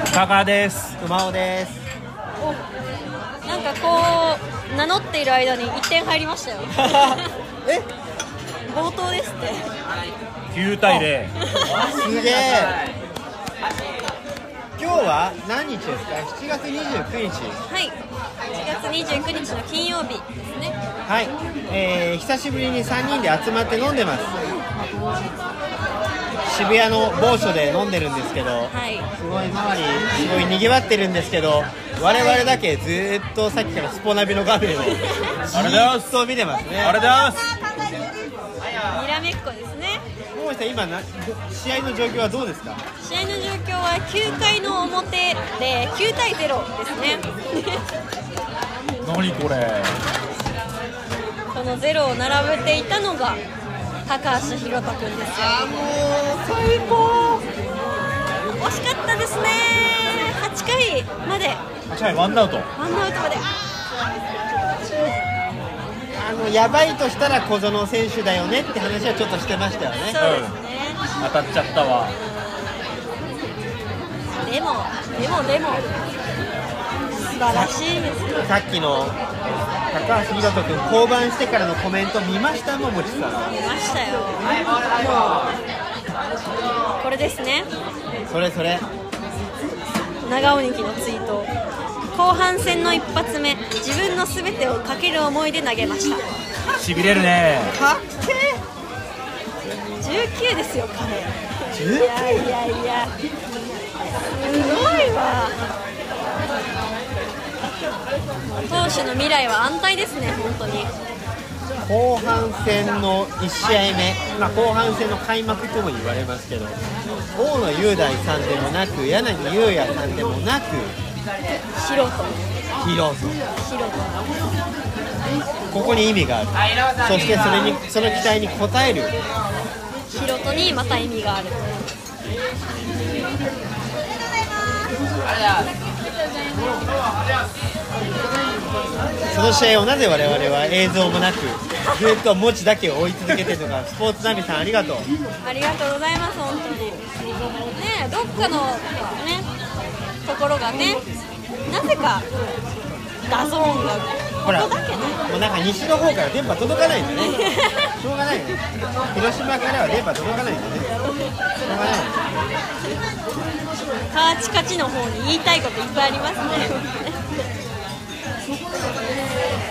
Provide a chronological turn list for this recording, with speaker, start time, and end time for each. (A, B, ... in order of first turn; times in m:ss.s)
0:00.1-0:01.0 A
0:01.0-0:01.8 B
0:03.4-0:07.3 C
0:06.7-0:07.9 B
0:08.7-0:09.7 C
0:10.5-0:11.3 A
0:11.4-0:11.8 C
0:11.6-0:12.8 B
0:14.8-0:17.6 B
0:17.7-0:18.0 C
0:18.5-0:20.8 C
0:21.0-0:24.4 B
0:26.4-0:37.0 B
0:28.7-0:29.1 C
0:34.9-0:35.3 C
0:35.5-0:36.2 A
0:36.8-0:37.5 A
0:38.8-0:40.0 C
0:40.3-0:42.8 B
0:43.0-0:47.8 C
0:49.0-0:50.0 A
0:51.5-0:53.4 C
0:54.0-0:55.7 C
0:55.6-0:57.4 B
0:58.6-1:01.6 C
1:01.9-1:02.7 A
1:02.7-1:03.5 C
1:06.2-1:10.2 B
1:10.1-1:11.0 C
1:10.2-1:10.6 A
1:11.2-1:12.1 A
1:12.1-1:12.8 C
1:14.4-1:15.9 C
1:17.1-1:18.4 C
1:17.4-1:17.7 B
1:18.4-1:19.2 B
1:19.9-1:23.5 B
1:23.4-1:25.4 C
1:27.0-1:27.7 C
1:28.2-1:28.8 B
1:30.2-1:31.5 C
1:32.1-1:36.3 C
1:36.7-1:37.8 A
1:37.7-1:38.6 B
1:40.0-1:43.2 C
1:41.7-1:42.5 B
1:44.3-1:45.6 C
1:48.5-1:50.9 C
1:51.8-1:56.8 B
1:54.3-1:54.7 C
1:57.3-2:01.0 B
2:01.7-2:02.6 C
2:02.8-2:03.4 B
2:03.6-2:04.3 C
2:05.7-2:09.1 B
2:10.1-2:11.9 C
2:16.3-2:17.0 C
2:19.3-2:25.1 B
2:25.4-2:27.1 C
2:27.6-2:29.5 C
2:30.2-2:31.0 C
2:31.7-2:32.3 C
2:33.3-2:35.2 C
2:34.4-2:34.7 B
2:35.2-2:37.4 B
2:37.4-2:37.9 C
2:37.9-2:41.0 B
2:41.6-2:42.2 B
2:44.1-2:47.2 C